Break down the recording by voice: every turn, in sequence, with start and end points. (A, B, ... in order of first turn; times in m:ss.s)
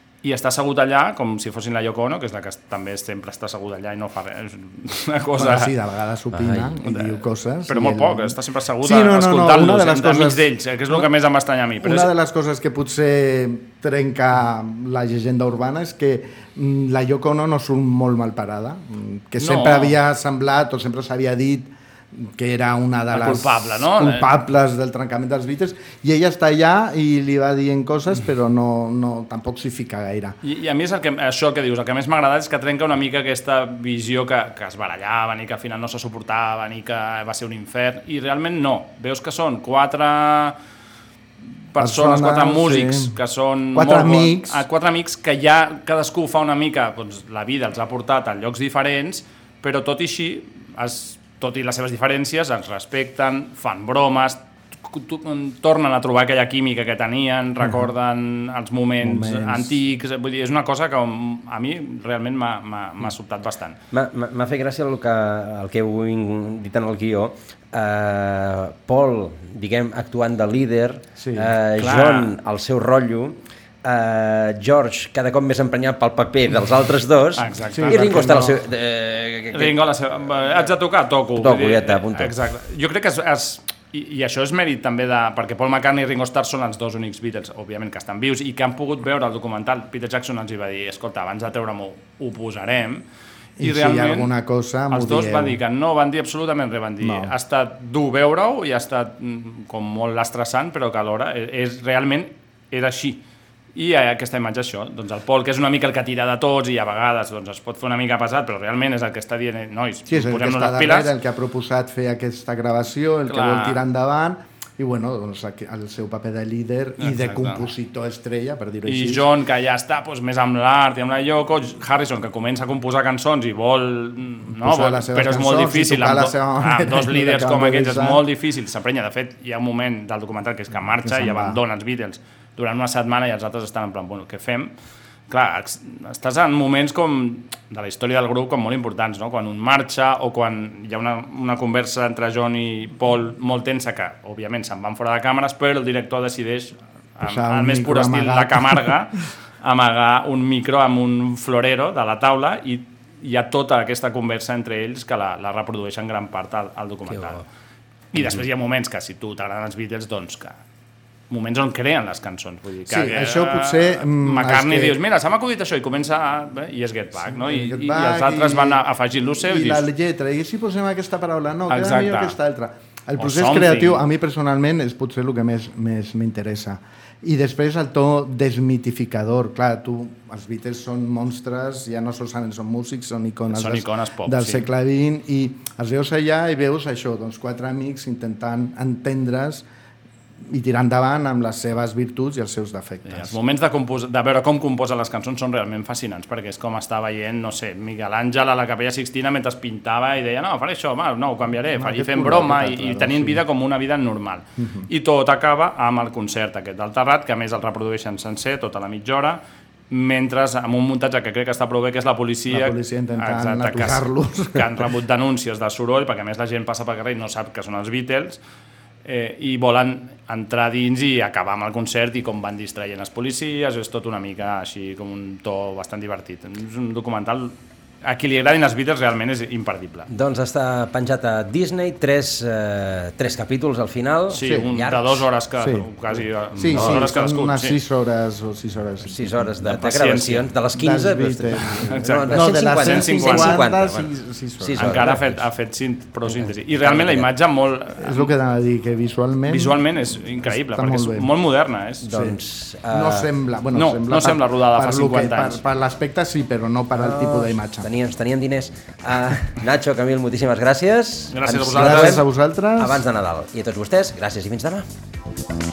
0:00.2-0:05.7 A
0:05.3-0:11.1 B
0:06.3-0:06.8 C
0:06.8-0:07.2 A
0:07.7-0:12.1 A
0:11.8-0:30.4 B
0:19.4-0:20.0 A
0:23.1-0:24.3 A
0:30.4-0:40.6 A
0:41.7-1:03.8 A
0:41.8-0:43.2 B
0:43.7-0:44.6 B
0:59.0-0:59.8 B
1:03.9-1:19.8 C
1:11.2-1:11.5 B
1:11.8-1:12.3 A
1:17.4-1:18.5 A
1:17.7-1:18.6 B
1:19.5-1:33.0 A
1:21.4-1:22.3 C
1:33.6-1:35.6 B
1:33.6-1:34.3 A
1:34.9-1:43.2 A
1:37.0-1:37.3 B
1:43.7-1:51.1 A
1:50.1-1:59.2 B
1:53.3-1:53.8 A
1:57.0-1:57.7 A
1:58.8-2:14.7 A
2:04.5-2:08.2 B
2:11.0-2:11.6 B
2:15.3-2:37.4 A
2:27.2-2:29.0 B
2:37.0-2:37.4 C
2:38.1-2:40.6 A
2:41.3-2:49.8 A
2:42.9-2:45.0 B
2:47.2-2:48.8 B
2:49.4-3:09.6 B
2:51.7-2:52.4 A
2:53.2-2:54.0 A
3:03.5-3:04.7 A
3:10.4-3:13.4 B
3:13.0-3:38.4 A
3:21.7-3:23.4 B
3:24.6-3:24.9 B
3:32.5-3:34.8 B
3:39.0-3:50.1 A
3:50.1-3:55.2 C
3:54.3-3:57.8 A
3:54.4-3:54.7 B
3:55.6-3:55.9 B
3:56.5-3:59.5 B
3:56.6-3:57.1 C
3:59.1-4:05.4 C
3:59.6-4:00.5 A
4:00.7-4:05.2 B
4:01.9-4:03.6 A
4:04.8-4:08.3 A
4:06.2-4:07.3 C
4:08.0-4:11.3 B
4:09.5-4:12.0 A
4:12.0-4:13.3 C
4:12.1-4:12.4 B
4:12.9-4:17.9 B
4:13.7-4:15.6 A
4:17.0-4:24.9 C
4:21.3-4:22.2 A
4:21.7-4:23.0 B